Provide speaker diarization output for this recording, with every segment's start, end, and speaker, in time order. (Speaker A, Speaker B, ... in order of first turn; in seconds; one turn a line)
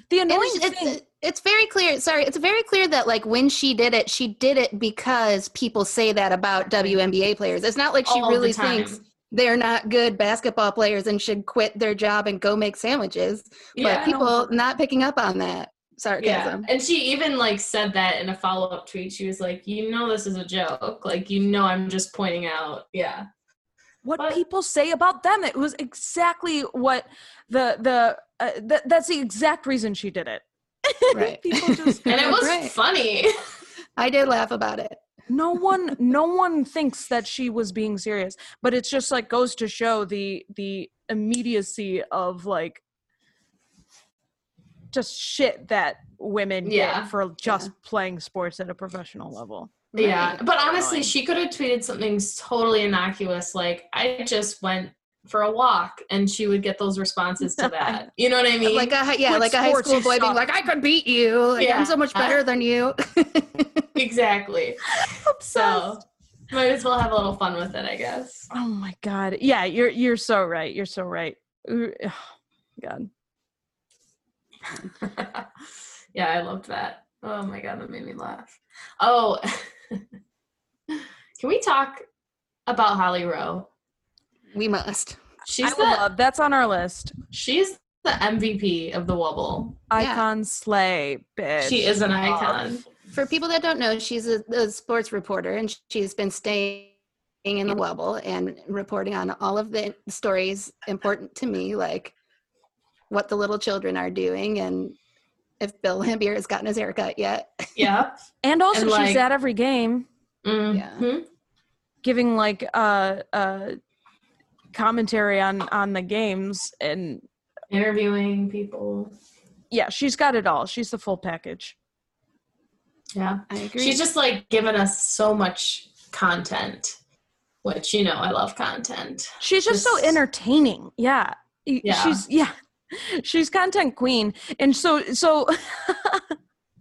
Speaker A: 0.1-1.0
Speaker B: 0.3-16.7
Speaker C: 8.1-9.0
Speaker C: 13.8-14.1
Speaker A: 13.8-14.5
Speaker C: 16.2-23.3
Speaker A: 24.0-32.5
Speaker B: 31.1-32.7
Speaker C: 32.1-33.3
Speaker B: 34.0-35.0
Speaker A: 35.3-42.8
Speaker A: 44.9-49.7
Speaker C: 46.6-47.1
Speaker B: 49.9-50.4
Speaker C: 50.0-59.0
Speaker A: 50.5-51.1
Speaker A: 57.4-58.1
Speaker B: 58.6-63.9
Speaker A: 59.3-60.4
Speaker C: 61.6-62.4
Speaker C: 64.0-68.5
Speaker A: 64.9-65.9
Speaker A: 68.5-72.3
Speaker A: 72.8-73.1
Speaker C: 75.0-75.5
Speaker C: 76.1-80.0
Speaker C: 80.9-82.0
Speaker C: 82.7-83.7
Speaker B: 84.5-85.2
Speaker C: 85.5-86.0
Speaker A: 85.6-87.2
Speaker C: 87.3-89.8
Speaker A: 89.9-92.3
Speaker B: 90.0-90.2
Speaker C: 91.6-92.8
Speaker B: 93.1-102.1
Speaker B: 103.1-105.0
Speaker B: 105.6-107.7
Speaker C: 107.8-108.2
Speaker A: 108.4-110.1
Speaker C: 108.7-109.2
Speaker C: 110.4-111.2
Speaker B: 110.7-111.0
Speaker A: 112.0-113.8
Speaker A: 114.7-117.2
Speaker C: 117.7-119.1
Speaker A: 119.7-121.8
Speaker C: 123.1-127.0
Speaker B: 123.5-124.0
Speaker C: 127.6-130.2
Speaker A: 129.4-136.3
Speaker C: 131.8-132.2